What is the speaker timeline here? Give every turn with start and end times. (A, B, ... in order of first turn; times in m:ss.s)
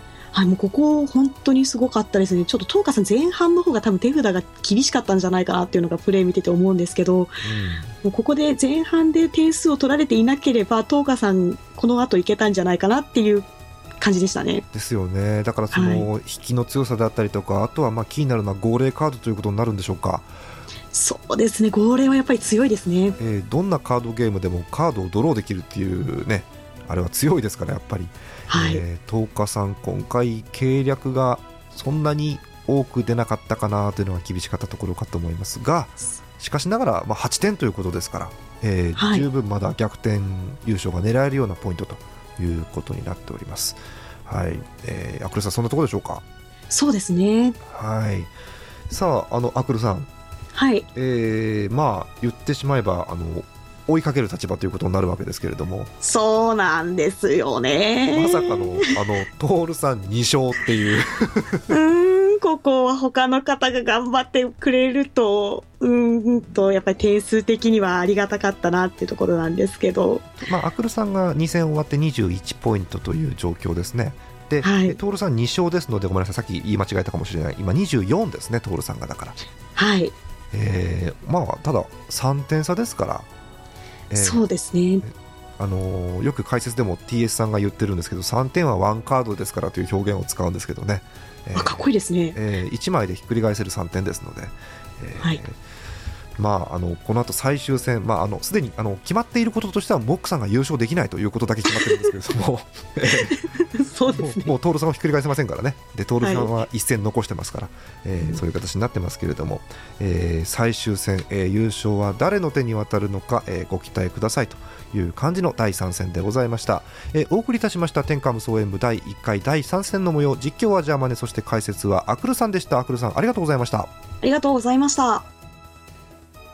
0:00.3-0:07.4 A
0:07.4-0:07.9 B
0:08.0-0:13.5 A
0:14.0-0:14.6 A
0:14.7-0:20.3 B
0:15.7-0:16.1 A
0:20.9-0:23.2 A
0:23.2-0:46.2 B
0:28.5-0:28.8 A
0:39.0-0:39.3 A
0:46.7-0:47.6 A
0:47.6-0:48.3 B
0:48.9-0:50.1 B
0:50.5-0:50.9 A
0:50.9-0:55.9 B
0:56.0-0:59.0 A
0:58.1-1:01.7 B
1:01.7-1:10.3 A
1:10.4-1:19.4 B
1:14.6-1:15.0 A
1:19.8-1:20.1 A
1:20.5-1:23.3 B
1:24.1-1:24.4 B
1:24.1-1:25.0 A
1:25.0-1:35.6 B
1:31.5-1:32.4 A
1:36.4-1:43.5 B
1:43.4-1:44.5 A
1:44.1-2:03.9 B
1:46.2-1:46.6 A
2:04.2-2:05.3 A